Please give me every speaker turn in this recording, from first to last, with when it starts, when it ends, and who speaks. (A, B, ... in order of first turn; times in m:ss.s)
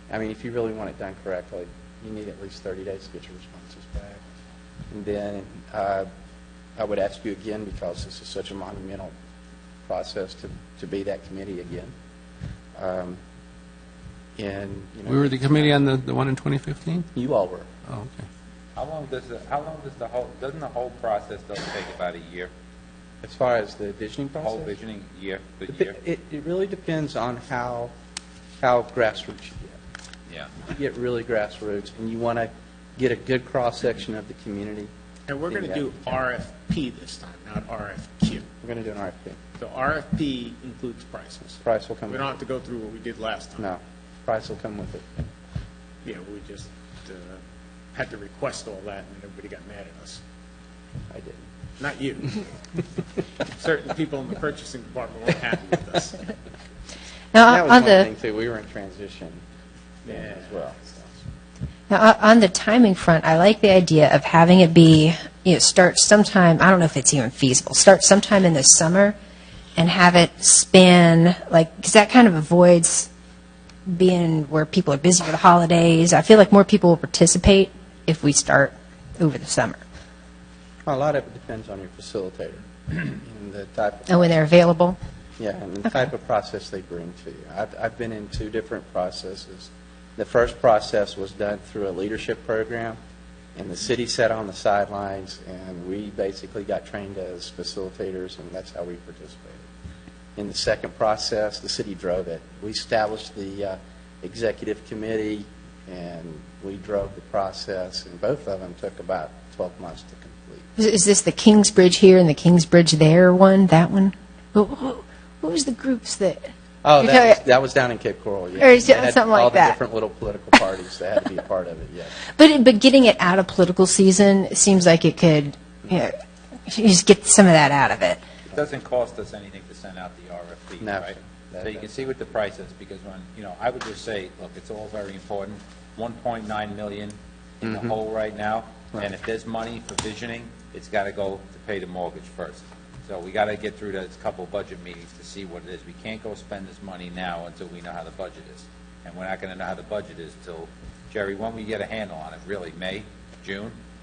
0:00.1-0:04.2 A
0:04.9-0:06.1 A
0:06.8-0:09.1 A
0:09.9-0:11.9 A
0:12.8-0:13.2 A
0:14.4-0:15.8 A
0:15.1-0:17.1 B
0:17.1-0:17.7 A
0:17.9-0:18.2 B
0:18.8-0:22.5 C
0:23.2-0:24.7 A
0:24.4-0:26.0 C
0:25.7-0:27.9 A
0:28.6-0:29.8 A
0:30.6-0:34.9 A
0:35.3-0:38.5 D
0:35.5-0:36.2 A
0:38.6-0:39.4 A
0:39.6-0:43.7 D
0:41.6-0:42.3 A
0:43.6-0:45.1 A
0:46.0-0:47.4 D
0:47.9-0:50.2 D
0:51.1-0:51.5 A
0:51.8-0:52.4 D
0:53.6-0:56.3 D
0:57.3-0:58.1 E
0:57.4-0:59.4 A
1:00.0-1:00.7 D
1:00.1-1:01.1 A
1:01.9-1:09.2 E
1:09.8-1:13.1 E
1:13.9-1:19.8 E
1:20.8-1:24.4 A
1:24.1-1:25.0 E
1:25.4-1:33.0 A
1:33.6-1:39.7 A
1:40.4-1:50.7 A
1:50.8-1:56.4 E
1:56.8-2:02.2 A
1:57.0-1:57.4 E
1:58.6-1:59.8 E
2:02.3-2:06.1 E
2:06.7-2:08.2 E
2:08.5-2:33.8 C
2:10.8-2:11.9 A
2:17.6-2:17.9 A